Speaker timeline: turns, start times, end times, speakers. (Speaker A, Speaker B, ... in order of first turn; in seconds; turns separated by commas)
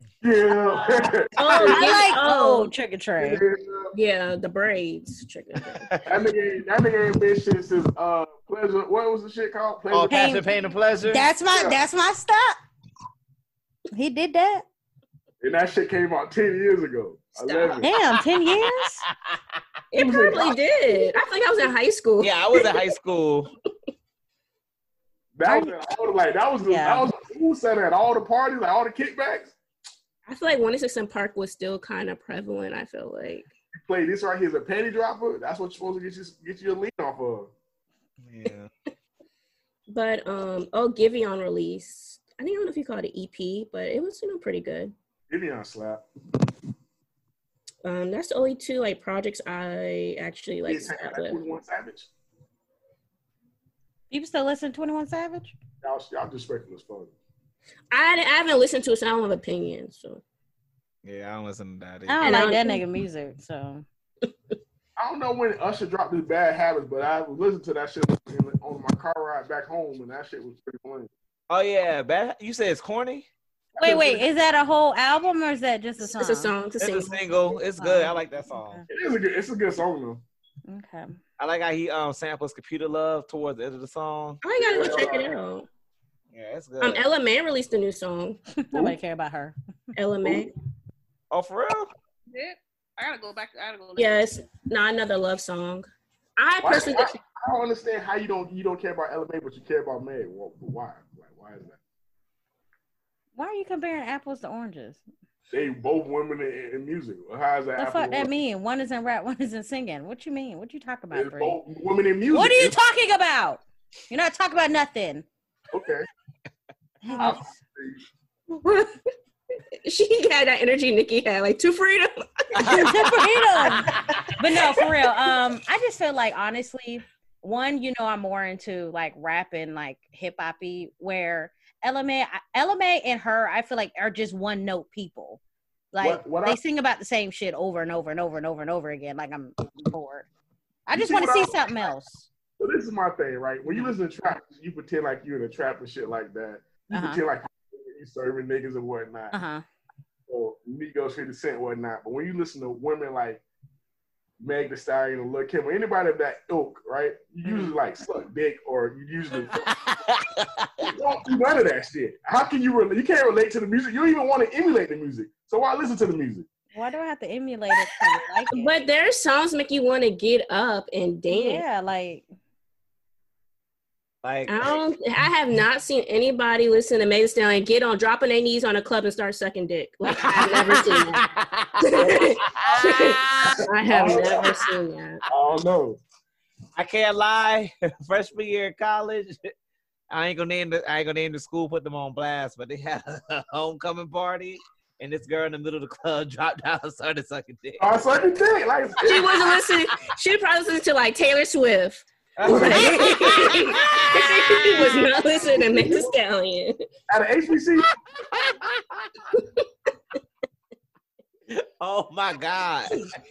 Speaker A: 0.2-2.1, Speaker B: 1.4-2.7, Speaker C: 1.5-3.4, Speaker A: 3.2-3.9, Speaker B: 3.9-5.9, Speaker D: 5.7-6.1, Speaker A: 6.0-10.4, Speaker D: 9.9-11.3, Speaker C: 10.1-10.5, Speaker C: 11.0-12.6, Speaker A: 11.5-11.8, Speaker C: 13.9-14.6, Speaker A: 15.4-17.9, Speaker C: 17.8-19.0, Speaker D: 18.5-19.4, Speaker B: 19.9-22.9, Speaker A: 19.9-21.0, Speaker D: 22.2-23.5, Speaker A: 25.3-29.6, Speaker C: 25.4-25.7, Speaker C: 26.7-27.1, Speaker B: 30.2-33.5, Speaker A: 33.7-37.5, Speaker D: 38.2-38.7, Speaker B: 39.9-44.9, Speaker A: 45.3-46.0, Speaker B: 47.8-51.4, Speaker A: 50.6-52.1, Speaker C: 54.1-55.5, Speaker A: 55.8-57.1, Speaker B: 57.9-60.2, Speaker D: 61.0-62.5, Speaker C: 62.1-63.8, Speaker B: 62.2-62.8, Speaker A: 65.0-71.1, Speaker D: 71.5-73.3, Speaker A: 73.8-74.2, Speaker C: 73.8-76.5, Speaker B: 76.0-77.5, Speaker D: 76.8-78.8, Speaker C: 77.8-78.8, Speaker A: 78.9-80.2, Speaker C: 80.7-81.1, Speaker D: 81.4-84.4, Speaker B: 84.4-85.7, Speaker A: 84.6-85.3, Speaker D: 86.3-87.0, Speaker B: 86.8-88.4, Speaker C: 88.6-89.5, Speaker B: 90.0-90.5, Speaker D: 91.3-91.9, Speaker E: 92.3-94.3, Speaker B: 94.0-97.2, Speaker A: 96.6-101.8, Speaker C: 103.3-105.0, Speaker A: 105.5-108.3, Speaker C: 107.8-111.6, Speaker A: 111.1-112.8, Speaker C: 112.3-115.2, Speaker A: 115.7-116.0, Speaker C: 117.0-117.4, Speaker A: 117.1-118.0, Speaker B: 118.5-119.1, Speaker B: 119.8-123.1, Speaker D: 122.6-124.3, Speaker C: 122.7-135.4, Speaker B: 123.7-125.1, Speaker C: 135.9-140.3, Speaker A: 136.0-136.6, Speaker C: 140.9-142.3, Speaker A: 140.9-141.9, Speaker A: 142.6-149.3, Speaker C: 146.9-147.2, Speaker C: 149.3-149.6, Speaker A: 150.3-153.4, Speaker A: 154.4-159.7, Speaker C: 157.4-157.7, Speaker D: 159.6-160.9, Speaker A: 160.8-166.5, Speaker C: 166.7-168.7, Speaker B: 168.5-171.6, Speaker C: 171.3-172.2, Speaker D: 174.2-174.8, Speaker B: 174.5-181.2, Speaker D: 180.1-184.5, Speaker B: 181.8-185.2, Speaker A: 183.8-184.6, Speaker A: 185.3-186.0, Speaker D: 186.8-189.5, Speaker D: 190.1-197.9, Speaker A: 197.8-199.4, Speaker B: 199.0-206.8, Speaker D: 202.4-205.1, Speaker A: 202.4-203.1, Speaker A: 205.4-206.1, Speaker A: 207.1-207.9, Speaker D: 208.1-209.2, Speaker B: 209.3-209.7, Speaker D: 211.5-213.1